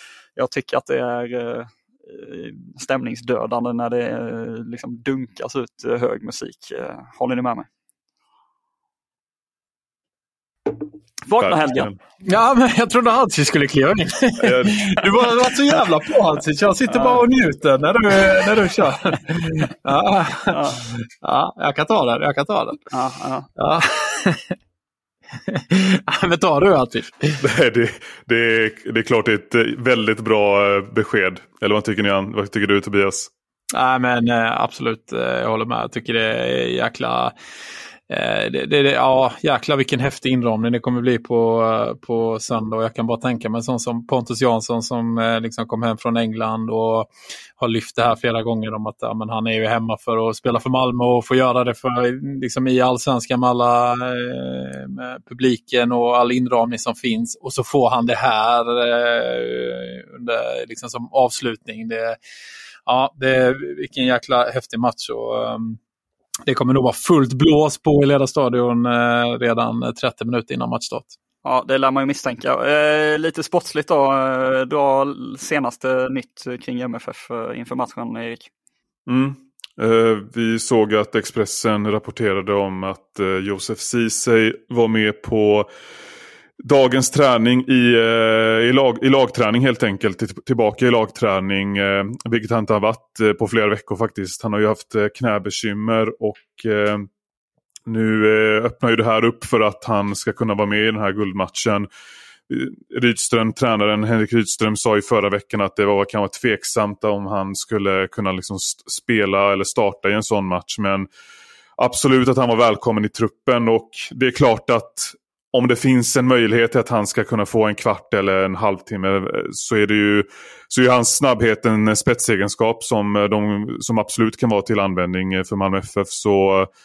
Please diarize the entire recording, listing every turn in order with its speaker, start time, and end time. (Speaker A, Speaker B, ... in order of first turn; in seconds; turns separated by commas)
Speaker A: 0.4-7.7, Speaker A: 11.2-11.9, Speaker B: 11.4-12.0, Speaker C: 12.2-22.8, Speaker B: 14.4-14.8, Speaker A: 16.9-17.3, Speaker A: 20.5-20.8, Speaker A: 22.9-23.5, Speaker C: 23.6-24.6, Speaker C: 25.5-27.4, Speaker B: 27.4-33.3, Speaker C: 33.7-37.3, Speaker C: 38.1-62.2, Speaker C: 62.9-65.8, Speaker C: 66.5-71.2, Speaker A: 71.4-78.5, Speaker B: 79.1-85.7, Speaker B: 86.6-97.1, Speaker B: 97.9-101.9, Speaker B: 102.5-111.1, Speaker B: 111.8-126.7